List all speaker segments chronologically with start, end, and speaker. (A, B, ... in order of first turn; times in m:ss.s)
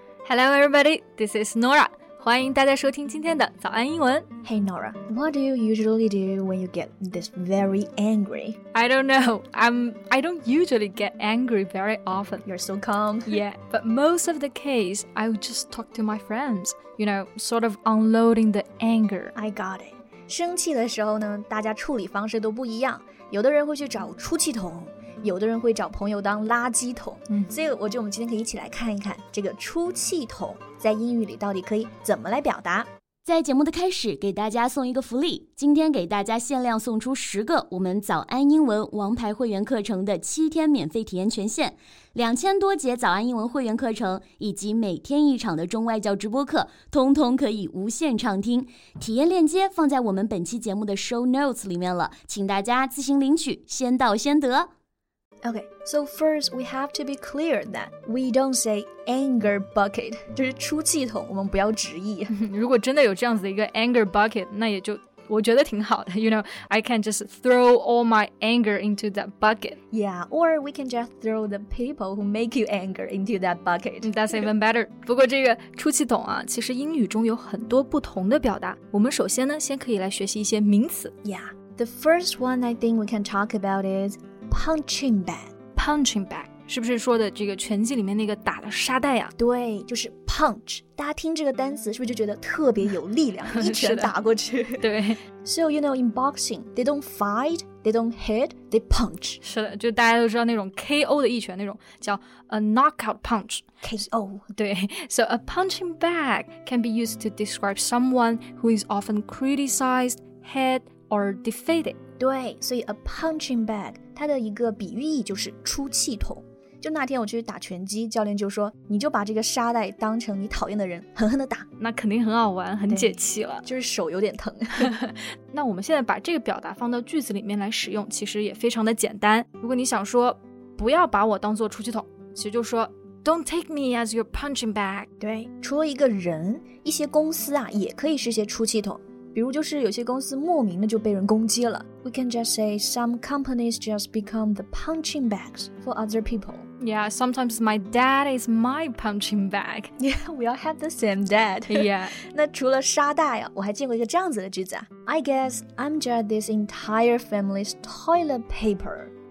0:00.2-0:04.3 A
0:04.4-0:08.6 B
0:08.7-0:12.4 A
0:12.4-0:13.4 B
0:13.3-0:19.3 A
0:19.4-0:32.9 B
0:33.2-0:54.7 C
0:55.4-1:02.3 B
1:02.3-1:09.8 A
1:09.9-1:14.5 B
1:14.0-1:21.1 A
1:21.2-1:25.5 B
1:25.8-1:29.3 A
1:29.4-1:34.8 B
1:33.5-1:34.1 A
1:34.8-1:35.2 A
1:35.4-1:39.4 B
1:39.4-1:43.6 A
1:43.8-1:44.5 B
1:44.5-1:52.0 A
1:52.2-2:01.7 B
2:01.8-2:03.6 A
2:02.9-2:04.9 B
2:04.8-2:15.1 A
2:15.2-2:26.7 B
2:26.8-2:29.9 A
2:30.0-2:39.1 B
2:31.7-2:32.2 A